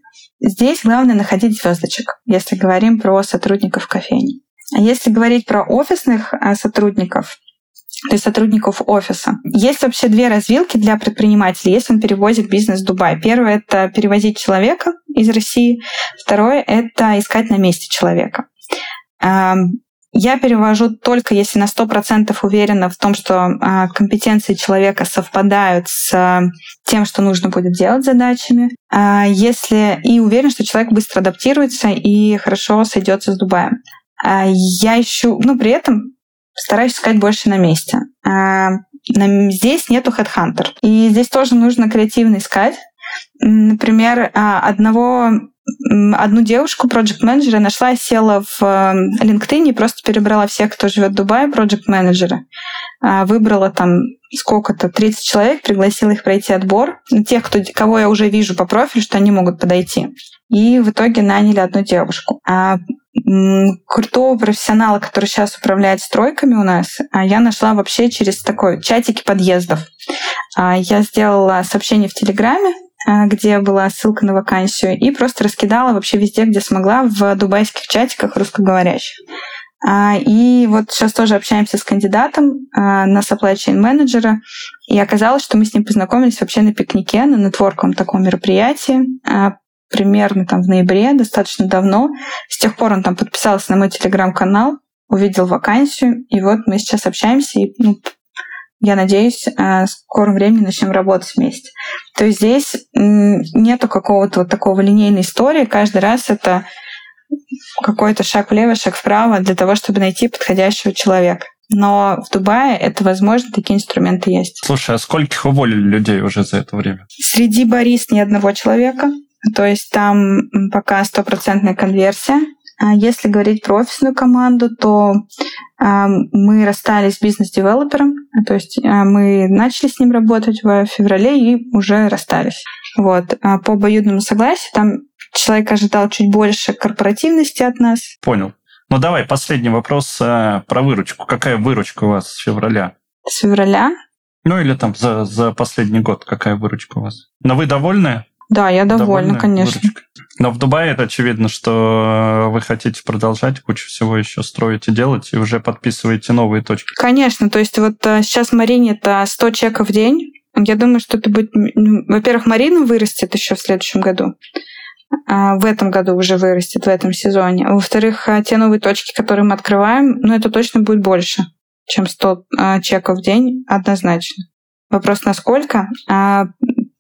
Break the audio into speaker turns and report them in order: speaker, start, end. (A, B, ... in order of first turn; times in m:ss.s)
0:00.4-0:07.4 A
0:08.1-0:18.5 A
0:19.2-0:42.8 A
0:43.4-0:52.4 A
0:53.0-1:09.9 A
1:10.6-1:19.2 A
1:19.8-1:38.1 A
1:38.8-1:46.6 A
1:47.8-1:54.6 A
1:54.6-1:57.0 B
1:57.2-2:05.2 A
2:05.8-2:18.1 A
2:18.2-2:22.9 B
2:23.3-2:24.0 A
2:24.4-2:28.3 B
2:28.5-2:29.9 A
2:28.9-2:36.9 B
2:37.0-2:44.3 A
2:45.3-2:56.8 A